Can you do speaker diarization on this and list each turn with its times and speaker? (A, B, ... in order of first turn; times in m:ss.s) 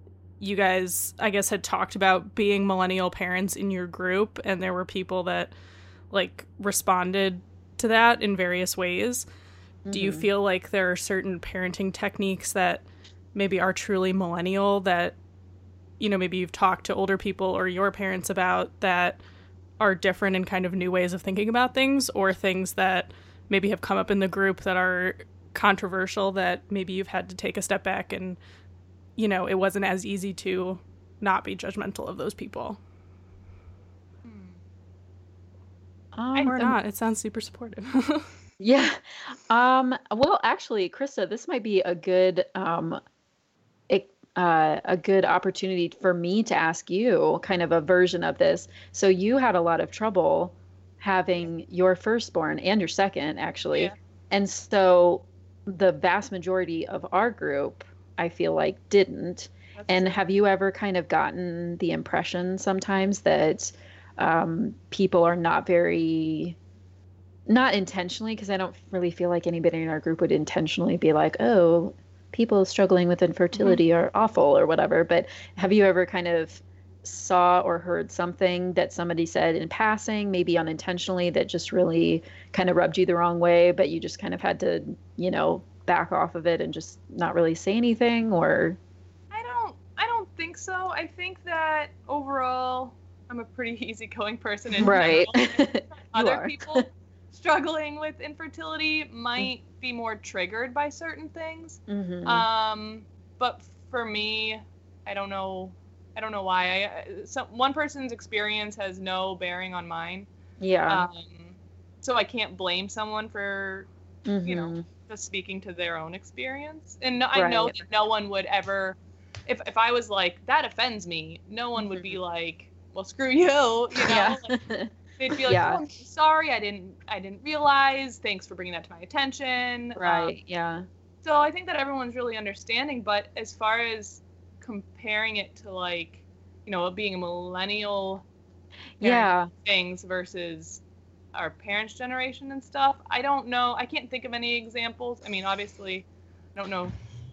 0:00.4-0:05.5 A
0:06.1-0:09.3 A
0:09.9-0:10.3 B
0:09.9-0:12.8 A
0:13.4-0:15.2 A
0:16.0-0:19.2 A
0:19.8-0:28.4 A
0:29.2-0:32.8 A
0:34.2-0:34.6 C
0:36.1-0:36.8 B
0:36.4-0:38.3 A
0:38.6-0:39.0 B
0:39.5-0:43.0 B
0:43.9-1:06.6 B
0:59.8-1:00.2 C
1:07.5-1:28.8 B
1:29.3-1:50.3 C
1:34.8-1:36.8 B
1:41.9-1:42.4 B
1:50.6-1:51.0 B
1:50.9-1:53.9 C
1:54.3-1:54.8 B
1:54.4-2:04.5 C
1:57.3-1:57.8 B
2:01.8-2:02.2 B
2:04.0-2:04.9 B
2:05.2-2:10.3 C
2:05.5-2:05.8 B
2:10.0-2:10.9 B
2:11.2-2:18.2 C
2:19.0-2:19.5 B
2:19.0-2:20.8 C
2:21.3-2:27.0 C